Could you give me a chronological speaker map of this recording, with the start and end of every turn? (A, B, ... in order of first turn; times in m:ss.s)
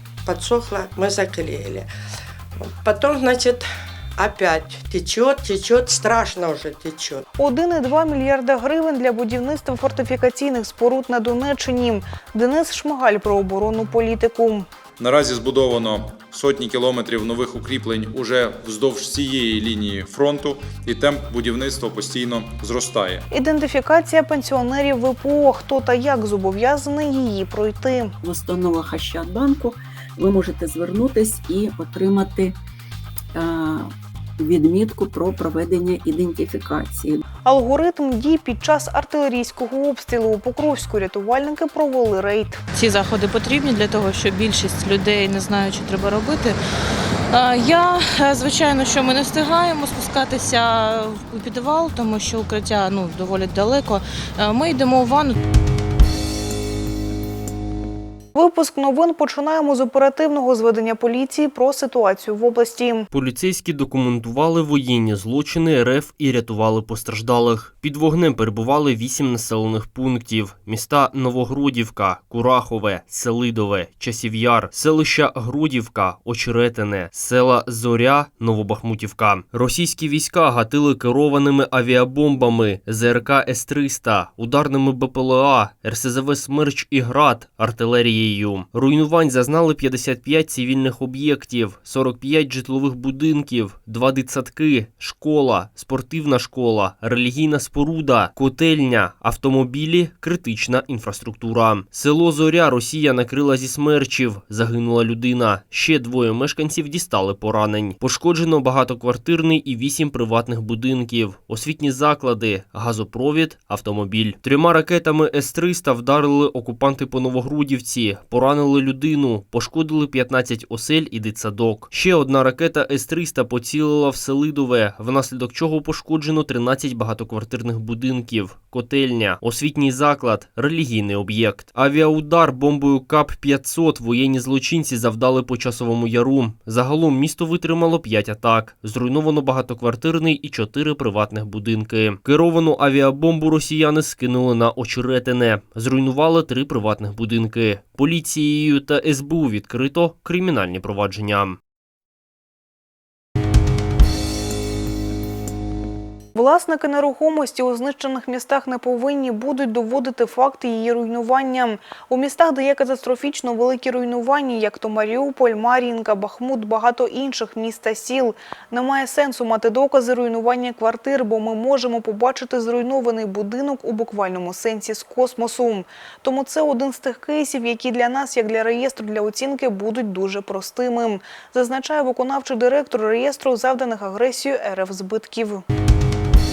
0:00.3-0:01.9 A
0:02.6-0:03.6 A
0:04.2-0:07.2 A
0:07.4-0:14.7 B
0:15.0-0:23.3 C
0:23.3-0:28.1 B
0:28.2-0:32.6 D
0:33.4-0:37.2 D
0:37.4-0:42.6 B
0:42.8-0:46.6 E
0:47.3-0:55.4 E
0:58.4-1:03.1 B
1:03.1-2:31.6 F
2:36.4-3:05.6 B